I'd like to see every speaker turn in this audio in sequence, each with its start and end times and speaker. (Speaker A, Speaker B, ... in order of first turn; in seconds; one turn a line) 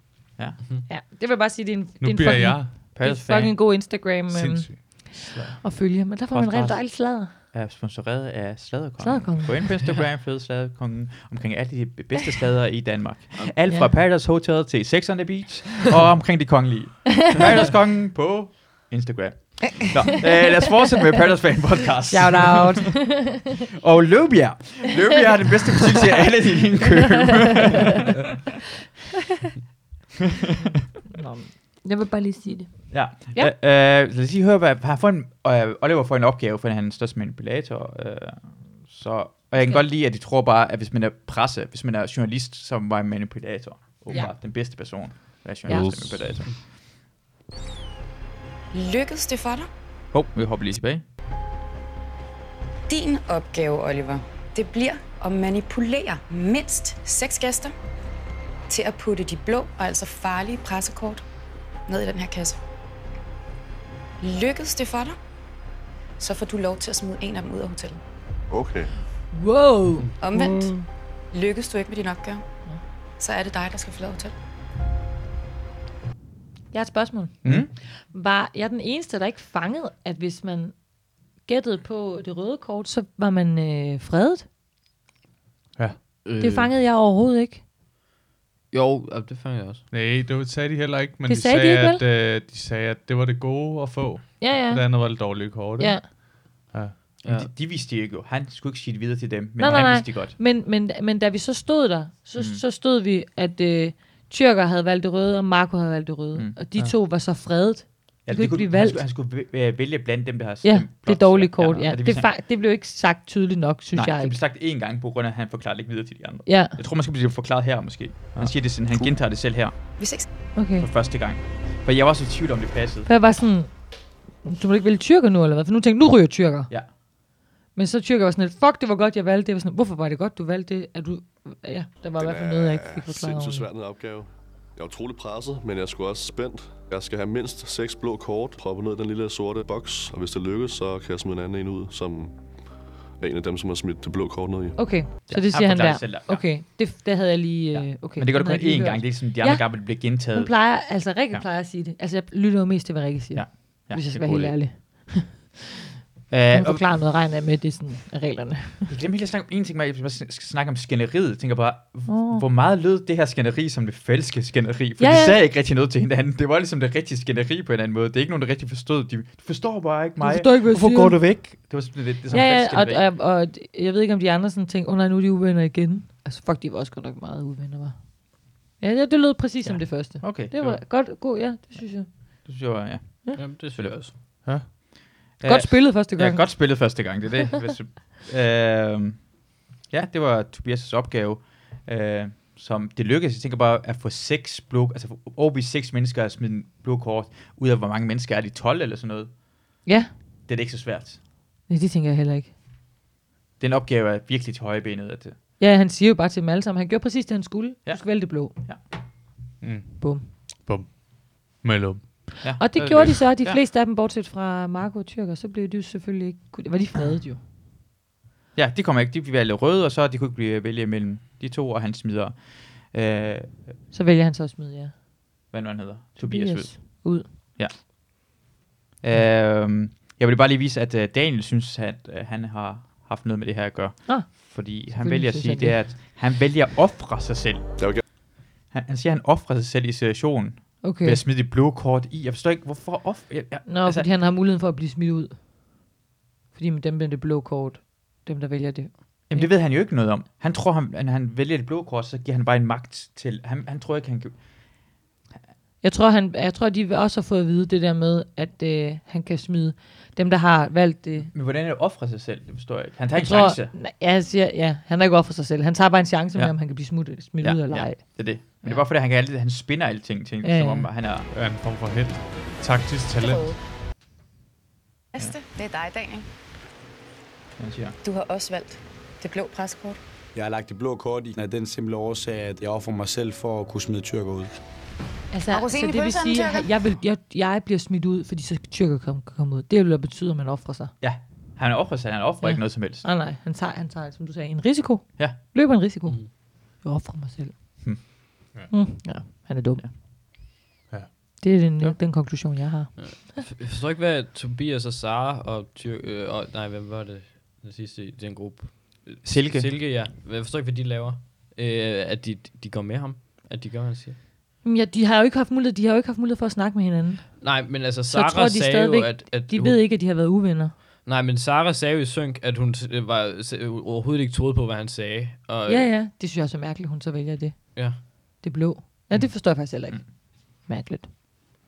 Speaker A: 0.9-7.3
Speaker B: 2.0-2.7
Speaker C: 2.9-3.6
Speaker B: 4.3-5.5
Speaker C: 6.3-28.1
Speaker A: 9.0-9.6
Speaker A: 22.1-23.5
Speaker A: 31.1-33.5
Speaker C: 32.9-46.8
Speaker A: 39.5-39.9
Speaker A: 45.7-46.1
Speaker D: 45.7-46.5
Speaker E: 48.7-49.7
Speaker C: 50.1-51.0
Speaker E: 52.9-57.7
Speaker E: 58.7-61.2
Speaker E: 61.9-62.6
Speaker E: 64.2-65.2
Speaker E: 66.2-68.0
Speaker F: 68.5-68.9
Speaker A: 69.3-70.1
Speaker E: 70.2-70.8
Speaker E: 71.3-72.4
Speaker E: 73.2-74.3
Speaker A: 76.7-80.9
Speaker B: 77.4-77.7
Speaker C: 77.4-77.7
Speaker A: 81.4-84.5
Speaker B: 85.8-86.0
Speaker D: 86.2-86.7
Speaker A: 86.4-87.6
Speaker D: 88.7-89.8
Speaker B: 89.9-97.0
Speaker A: 91.2-92.0
Speaker A: 94.4-96.1
Speaker D: 97.2-97.5
Speaker C: 97.2-100.3
Speaker A: 99.6-109.0
Speaker C: 102.3-102.6
Speaker C: 108.2-112.3
Speaker A: 110.6-114.4
Speaker C: 113.9-119.8
Speaker A: 116.4-116.8
Speaker E: 120.0-120.3
Speaker C: 120.4-123.1
Speaker A: 120.5-120.8
Speaker A: 123.0-127.0
Speaker A: 127.7-133.7
Speaker F: 132.2-144.9
Speaker A: 144.8-155.5
Speaker C: 145.2-146.5
Speaker C: 147.7-151.4
Speaker C: 153.3-154.6
Speaker C: 156.3-156.9
Speaker A: 156.5-158.9
Speaker C: 158.9-173.1
Speaker A: 162.1-162.4
Speaker A: 165.0-165.4
Speaker A: 170.2-171.2
Speaker A: 172.3-182.5
Speaker C: 179.6-180.8
Speaker C: 182.4-184.0
Speaker D: 183.4-184.1
Speaker C: 185.4-199.8
Speaker A: 185.4-187.0
Speaker A: 199.8-200.1
Speaker C: 200.5-201.2
Speaker A: 201.7-202.5
Speaker C: 203.6-205.4
Speaker A: 205.6-208.5
Speaker C: 207.8-208.8
Speaker B: 209.6-212.4
Speaker A: 210.0-210.3
Speaker C: 212.4-213.6
Speaker A: 212.6-217.4
Speaker C: 218.5-223.8
Speaker A: 223.9-224.9
Speaker C: 225.5-228.4
Speaker A: 226.2-227.3
Speaker C: 229.0-238.0
Speaker A: 234.1-235.8
Speaker F: 237.8-238.0
Speaker C: 238.6-244.1
Speaker A: 240.8-241.2
Speaker A: 243.7-245.4
Speaker A: 246.5-249.5
Speaker C: 249.3-255.0
Speaker A: 255.8-261.3
Speaker C: 261.3-263.7
Speaker A: 263.1-268.9
Speaker C: 266.3-271.3
Speaker A: 270.4-270.9
Speaker B: 271.3-273.6
Speaker E: 275.1-276.2
Speaker C: 277.6-278.0
Speaker E: 278.0-280.0
Speaker G: 280.3-284.6
Speaker A: 285.3-290.9
Speaker E: 285.5-286.7
Speaker C: 291.0-293.1
Speaker A: 292.4-299.8
Speaker C: 297.8-298.3
Speaker B: 300.9-301.4
Speaker A: 301.4-303.4
Speaker D: 303.0-314.2
Speaker C: 309.2-309.8
Speaker A: 314.6-320.7
Speaker D: 317.4-319.8
Speaker D: 321.0-325.9
Speaker A: 325.7-331.1